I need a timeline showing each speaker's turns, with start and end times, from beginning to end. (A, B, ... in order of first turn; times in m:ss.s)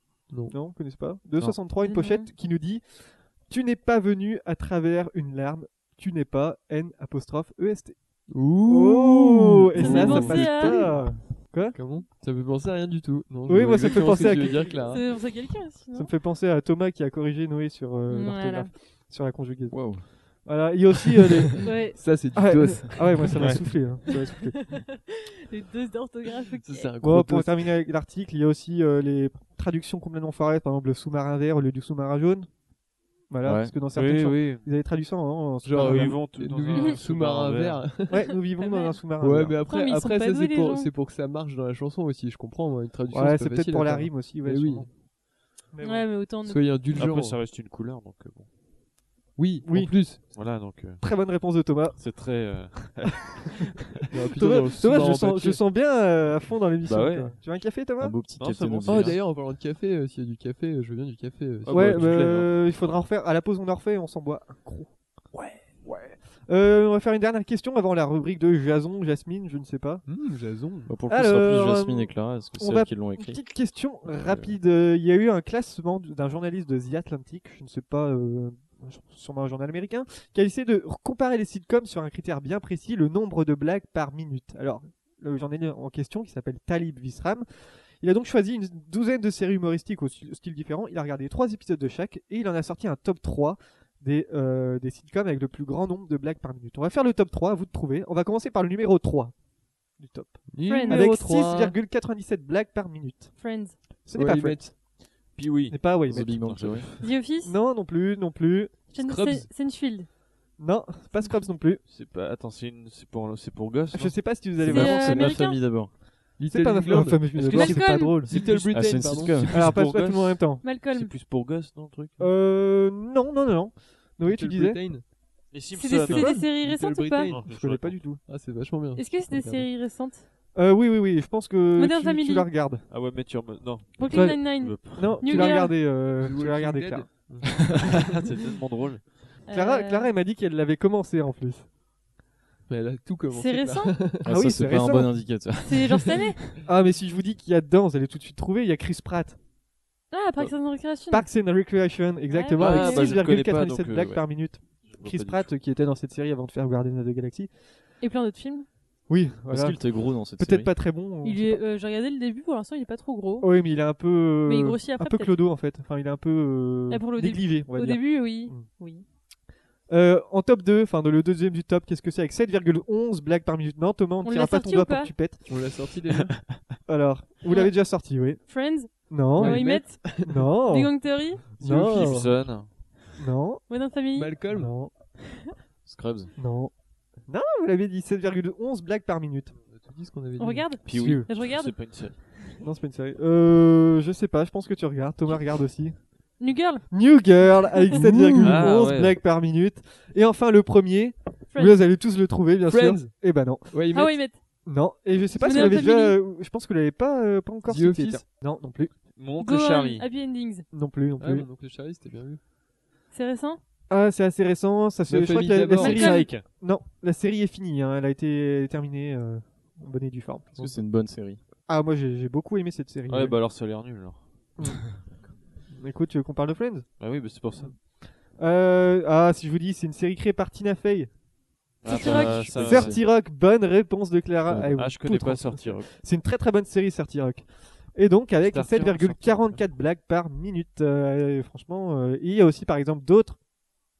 0:00.3-0:00.5 A
0:00.5-0:08.0 B
0:01.8-0:02.3 C
0:08.3-0:11.0 A
0:08.6-0:11.8 B
0:09.7-0:10.9 C
0:11.7-0:15.0 A
0:13.5-0:14.8 B
0:14.8-0:16.1 C
0:16.0-0:21.7 B
0:18.1-0:18.7 C
0:19.7-0:20.1 D
0:21.6-0:22.0 C
0:22.0-0:23.3 A
0:22.3-0:24.7 B
0:23.3-0:23.6 E
0:24.1-0:26.9 C
0:26.6-0:27.6 A
0:27.0-0:32.5 B
0:33.3-0:36.2 B
0:33.4-0:33.8 D
0:33.9-0:34.6 E
0:35.6-0:38.2 A
0:35.8-0:38.0 E
0:38.1-0:39.0 C
0:38.1-0:39.6 B
0:39.2-0:44.9 A
0:39.7-0:40.9 C
0:43.1-0:44.9 B
0:45.7-0:46.1 B
0:45.8-0:46.6 C
0:46.4-0:47.4 A
0:46.9-0:48.5 E
0:49.4-0:50.2 A
0:49.6-0:50.3 B
0:50.2-0:51.0 E
0:51.0-0:52.0 B
0:52.0-0:53.7 E
0:54.1-0:55.6 A
0:54.3-0:58.2 B
0:56.8-0:57.4 E
0:58.0-0:59.2 D
0:58.3-0:59.2 E
0:58.8-1:02.1 A
1:01.6-1:02.6 E
1:01.7-1:04.9 B
1:05.3-1:06.1 E
1:06.2-1:10.0 B
1:10.0-1:10.9 A
1:10.9-1:13.4 D
1:11.1-1:27.5 B
1:14.0-1:14.5 D
1:28.0-1:39.3 B
1:40.0-1:43.4 B
1:40.5-1:41.8 A
1:40.6-1:41.0 C
1:43.4-1:43.8 C
1:44.0-1:44.7 B
1:44.1-1:44.7 A
1:45.3-1:47.0 E
1:45.7-1:46.3 B
1:46.1-1:46.9 D
1:47.0-1:47.5 C
1:47.4-1:48.8 B
1:48.9-1:50.1 C
1:49.0-1:49.5 A
1:50.6-1:51.8 B
1:51.8-1:54.3 E
1:53.9-1:55.5 B
1:54.6-1:55.9 D
1:54.6-1:55.6 C
1:56.4-1:59.5 A
1:56.5-1:58.3 B
1:57.3-1:57.8 E
1:57.5-1:58.2 C
1:58.3-1:59.8 D
1:59.5-2:02.3 E
1:59.5-2:00.7 B
2:00.6-2:01.1 C
2:02.2-2:04.8 B
2:04.2-2:05.0 A
2:05.5-2:06.4 E
2:05.7-2:07.3 C
2:06.1-2:06.4 B
2:06.2-2:07.4 A
2:07.2-2:08.0 E
2:07.4-2:08.2 B
2:08.2-2:09.7 A
2:09.0-2:10.2 C
2:10.5-2:12.9 B
2:11.7-2:12.5 C
2:12.9-2:15.5 E
2:14.0-2:15.8 C
2:14.1-2:17.1 B
2:16.2-2:17.8 A
2:17.9-2:19.4 E
2:19.5-2:20.1 C
2:19.5-2:21.7 B
2:22.7-2:24.3 A
2:23.3-2:24.0 C
2:24.2-2:25.2 B
2:24.2-2:26.3 D
2:25.6-2:26.4 C
2:26.6-2:29.4 B
2:30.1-2:31.2 C
2:31.1-2:37.5 B
2:32.3-2:33.2 C
2:32.6-2:34.2 E
2:34.8-2:35.5 E
2:38.0-2:38.6 C
2:39.1-2:41.6 B
2:39.5-2:40.7 D
2:41.2-2:43.5 C
2:43.4-2:48.7 B
2:44.4-2:45.3 C
2:46.9-2:49.0 C
2:49.9-2:55.5 B
2:54.2-2:55.1 C
2:55.4-2:56.3 A
2:56.2-2:56.8 E
2:56.9-2:58.4 B
2:57.5-2:57.7 C
2:58.5-3:02.1 C
2:59.1-3:00.9 B
2:59.4-3:00.4 A
3:01.6-3:02.4 B
3:01.6-3:02.7 E
3:03.2-3:03.6 B
3:03.7-3:04.4 C
3:04.1-3:04.7 A
3:04.5-3:04.9 B
3:05.8-3:06.3 D
3:06.4-3:06.7 B
3:07.3-3:09.5 B
3:09.6-3:10.7 A
3:10.4-3:12.2 C
3:10.9-3:12.2 E
3:10.9-3:11.3 B
3:12.6-3:16.0 B
3:16.4-3:16.8 C
3:16.9-3:23.9 B
3:17.9-3:18.6 A
3:18.4-3:19.2 E
3:21.5-3:21.8 C
3:22.7-3:23.1 A
3:23.7-3:24.2 A
3:23.9-3:24.4 C
3:24.6-3:28.9 B
3:25.4-3:26.2 C
3:25.5-3:25.8 A
3:27.6-3:28.2 A
3:29.2-3:30.0 E
3:29.4-3:30.6 C
3:30.7-3:31.5 B
3:31.2-3:32.4 A
3:33.1-3:33.6 C
3:33.9-3:40.8 B
3:35.1-3:36.1 A
3:35.8-3:36.3 C
3:36.0-3:36.5 E
3:40.6-3:41.4 D
3:41.7-3:43.4 B
3:43.1-3:44.2 E
3:44.6-3:45.0 B
3:45.7-3:46.9 B
3:47.0-3:47.7 E
3:48.3-3:51.1 B
3:51.8-3:53.0 E
3:51.8-3:52.5 C
3:51.8-3:53.0 D
3:52.5-4:03.4 B
3:54.5-3:54.7 D
3:54.5-3:55.9 E
3:58.4-3:59.6 E